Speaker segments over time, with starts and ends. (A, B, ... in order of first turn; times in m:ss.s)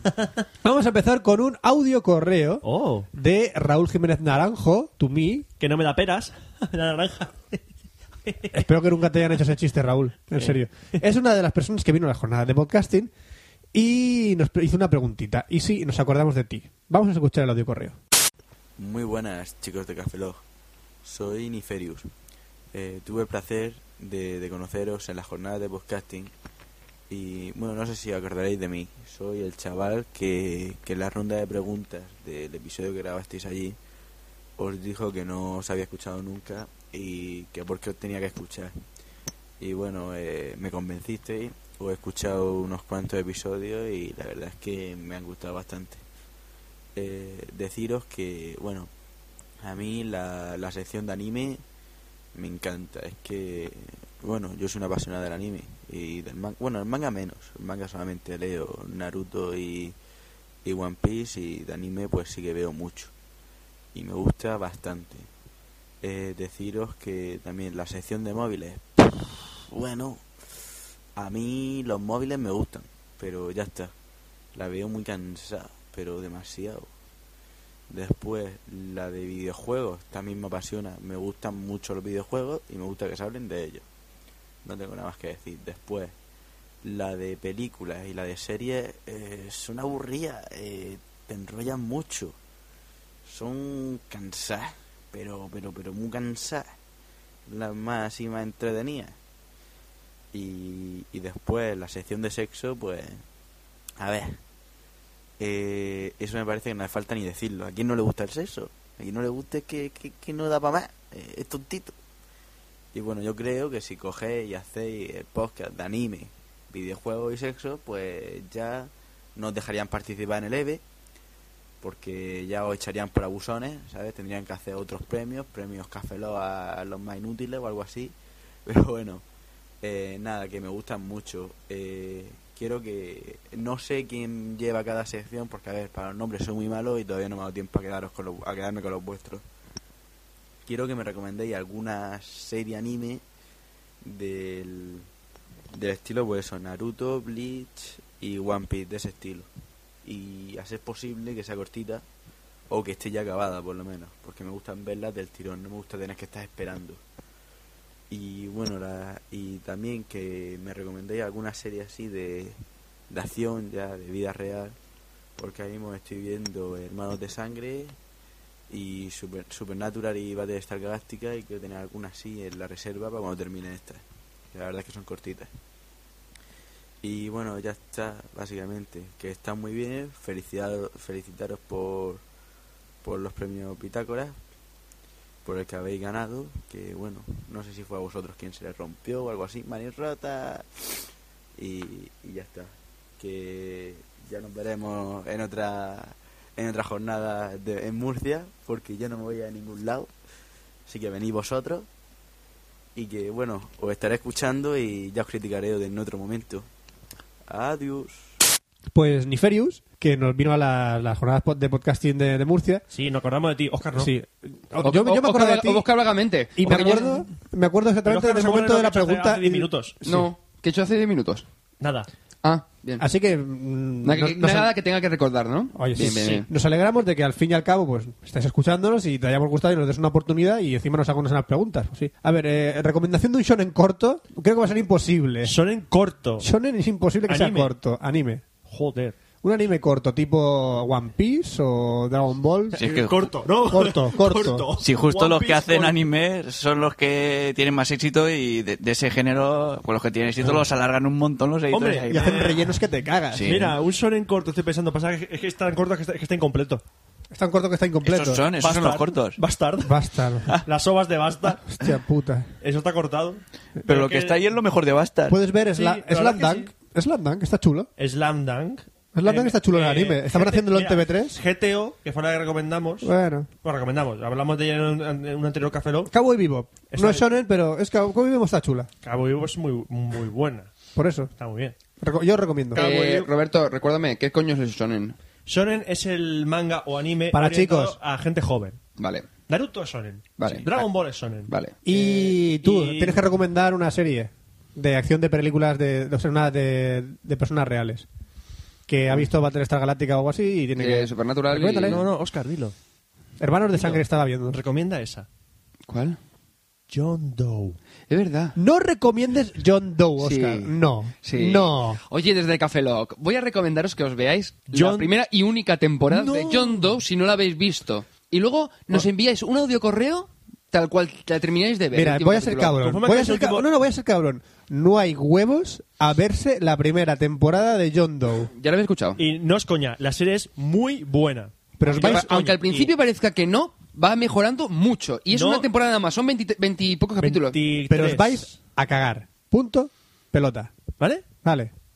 0:00.6-0:05.5 A
0:02.6-0:03.1 B
0:05.6-0:07.6 B
0:08.3-0:08.6 B
0:08.5-0:13.1 A
0:13.7-0:18.0 A
0:18.8-0:20.4 C
0:21.0-0:22.1 C
0:22.7-0:26.3 C
0:27.1-0:33.8 C
0:34.6-0:38.7 C
0:39.6-0:46.0 C
0:47.0-0:48.9 C
0:49.6-0:51.6 C
0:52.4-1:00.0 C
1:00.6-1:03.1 C
1:03.9-1:05.3 C
1:06.0-1:10.3 C
1:11.2-1:13.9 C
1:14.6-1:16.9 C
1:17.9-1:23.8 C
1:24.6-1:26.1 C
1:26.8-1:32.4 C
1:33.2-1:36.7 C
1:37.5-1:39.2 C
1:40.3-1:43.2 C
1:44.0-1:44.4 C
1:45.4-1:52.0 C
1:52.9-2:00.8 C
2:01.8-2:08.2 C
2:08.7-2:09.2 C
2:09.8-2:19.4 C
2:20.6-2:23.2 C
2:24.0-2:25.1 C
2:25.7-2:29.5 C
2:30.0-2:32.0 C
2:32.7-2:37.0 C
2:38.1-2:44.8 C
2:45.4-2:48.0 C
2:48.7-2:55.5 C
2:57.0-3:02.2 C
3:03.0-3:04.4 C
3:05.4-3:11.0 C
3:11.6-3:20.1 C
3:20.9-3:21.9 C
3:23.0-3:26.7 C
3:27.5-3:28.3 C
3:28.9-3:32.8 A
3:32.9-3:34.1 B
3:34.0-3:35.9 A
3:34.8-3:37.2 D
3:36.6-3:40.2 A
3:38.0-3:40.0 B
3:40.0-3:41.4 D
3:41.8-3:42.1 B
3:42.4-3:43.1 D
3:43.0-3:44.7 A
3:44.0-3:46.5 D
3:45.8-3:55.6 A
3:55.4-3:56.5 B
3:56.4-3:58.4 A
3:57.3-3:57.7 B
3:58.7-3:59.2 B
3:59.4-4:02.8 A
4:02.7-4:06.0 B
4:02.8-4:03.3 E
4:03.6-4:04.7 A
4:04.8-4:12.5 E
4:11.7-4:12.8 B
4:12.1-4:13.5 A
4:13.4-4:13.7 E
4:13.4-4:16.8 B
4:17.3-4:18.4 A
4:18.1-4:19.4 E
4:18.1-4:20.0 B
4:19.8-4:20.5 A
4:20.6-4:21.6 B
4:21.6-4:22.5 A
4:22.6-4:24.4 B
4:23.8-4:25.4 E
4:25.3-4:27.9 A
4:25.7-4:26.7 B
4:28.0-4:33.1 B
4:29.1-4:31.4 A
4:33.0-4:33.5 A
4:33.6-4:36.1 B
4:36.1-4:38.9 A
4:36.9-4:37.2 B
4:39.0-4:40.7 B
4:41.0-4:41.3 A
4:41.4-4:41.8 B
4:42.0-4:42.9 A
4:42.7-4:45.2 D
4:42.8-4:43.3 B
4:45.5-4:48.8 B
4:47.3-4:48.0 A
4:49.0-4:49.3 D
4:49.5-4:53.2 B
4:50.4-4:50.9 D
4:51.5-4:51.8 D
4:51.8-4:58.1 A
4:58.9-5:02.0 A
5:00.8-5:02.0 D
5:01.7-5:02.8 B
5:03.4-5:04.6 A
5:03.7-5:05.3 B
5:05.9-5:06.2 D
5:06.9-5:07.8 B
5:08.1-5:08.6 D
5:08.6-5:12.0 A
5:10.2-5:22.8 D
5:14.7-5:15.1 B
5:16.1-5:16.8 B
5:21.9-5:28.5 A
5:22.8-5:23.7 B
5:28.5-5:29.2 D
5:29.2-5:32.9 B
5:31.8-5:32.3 A
5:31.9-5:37.6 D
5:35.3-5:35.6 B
5:37.2-5:40.7 A
5:37.3-5:38.5 B
5:41.4-5:41.7 A